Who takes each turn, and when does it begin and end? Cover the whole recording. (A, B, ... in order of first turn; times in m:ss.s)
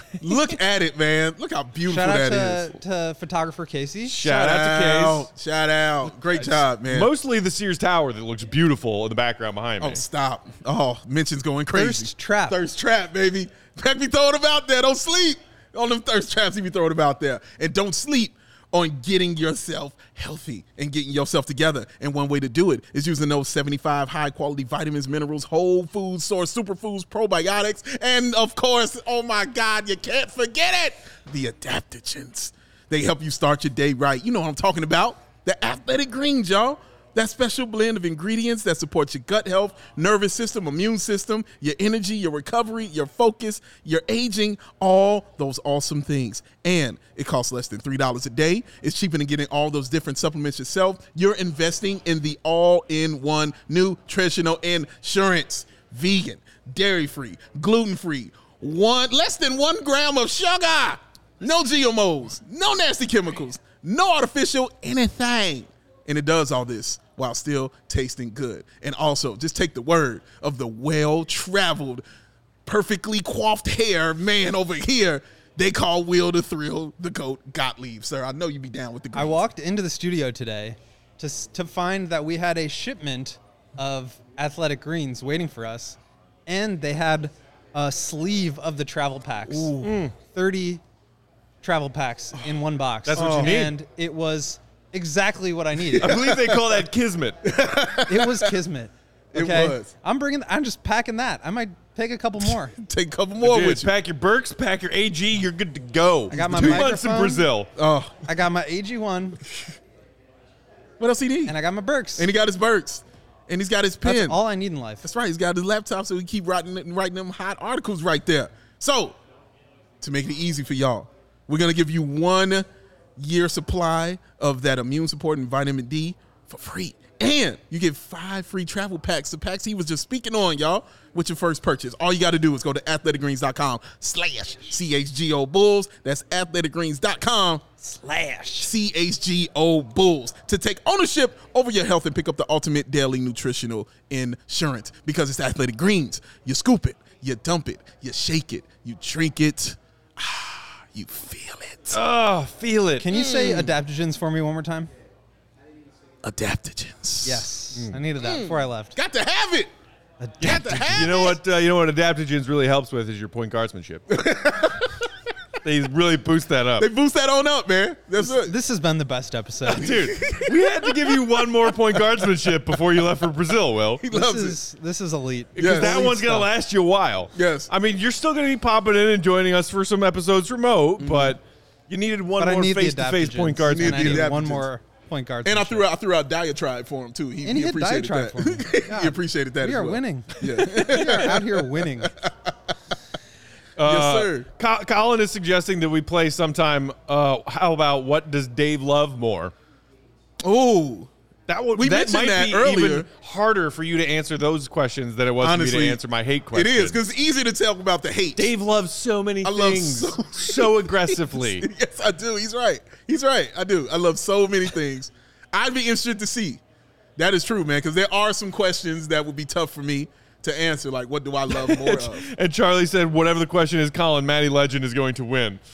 0:00.2-0:02.7 A
0:01.9-0:04.2 B
0:04.1-0:05.3 C
0:04.2-0:07.1 A
0:06.3-0:10.0 C
0:09.8-1:12.0 A
0:11.7-0:12.6 B
1:12.7-1:19.4 A
1:19.1-1:30.8 B
1:29.5-1:29.9 A
1:29.8-1:30.1 C
1:31.6-1:36.1 B
1:33.1-1:33.7 C
1:33.2-1:33.6 A
1:36.0-1:36.6 A
1:36.0-1:37.4 C
1:37.4-1:38.5 A
1:38.1-1:42.8 B
1:39.3-1:39.9 A
1:42.8-1:43.9 A
1:43.4-1:47.7 C
1:46.3-1:47.5 B
1:46.4-1:46.9 A
1:47.8-1:48.2 A
1:48.2-1:49.4 B
1:51.0-1:51.6 A
1:51.5-1:52.3 B
1:52.2-1:54.4 A
1:54.0-1:55.1 B
1:55.0-1:59.2 A
2:00.0-2:02.7 A
2:03.2-2:17.6 A
2:17.8-2:18.7 B
2:18.6-2:32.0 A
2:31.9-2:33.1 C
2:33.0-2:34.9 B
2:33.1-2:33.7 A
2:36.2-2:37.4 A
2:37.2-2:39.0 B
2:38.2-2:39.7 A
2:40.2-2:41.2 B
2:40.4-2:41.4 A
2:40.5-2:44.1 C
2:44.1-2:44.9 A
2:45.6-2:46.9 C
2:46.8-2:48.5 A
2:48.2-2:50.0 B
2:49.7-2:54.0 C
2:49.8-2:50.6 A
2:54.0-2:54.6 A
2:54.1-2:56.5 B
2:55.6-3:04.3 C
2:55.6-2:56.0 A
2:57.4-2:57.7 A
3:01.0-3:01.4 A
3:02.4-3:05.9 B
3:03.7-3:04.7 A
3:05.4-3:12.5 A
3:07.4-3:12.1 B
3:13.8-3:19.5 C
3:13.8-3:14.5 A
3:20.4-3:21.1 A
3:21.5-3:27.0 C
3:21.8-3:23.1 A
3:25.4-3:26.0 A
3:26.5-3:28.5 A
3:28.4-3:31.7 C
3:29.4-3:36.6 A
3:37.2-3:42.3 A
3:41.5-3:45.6 C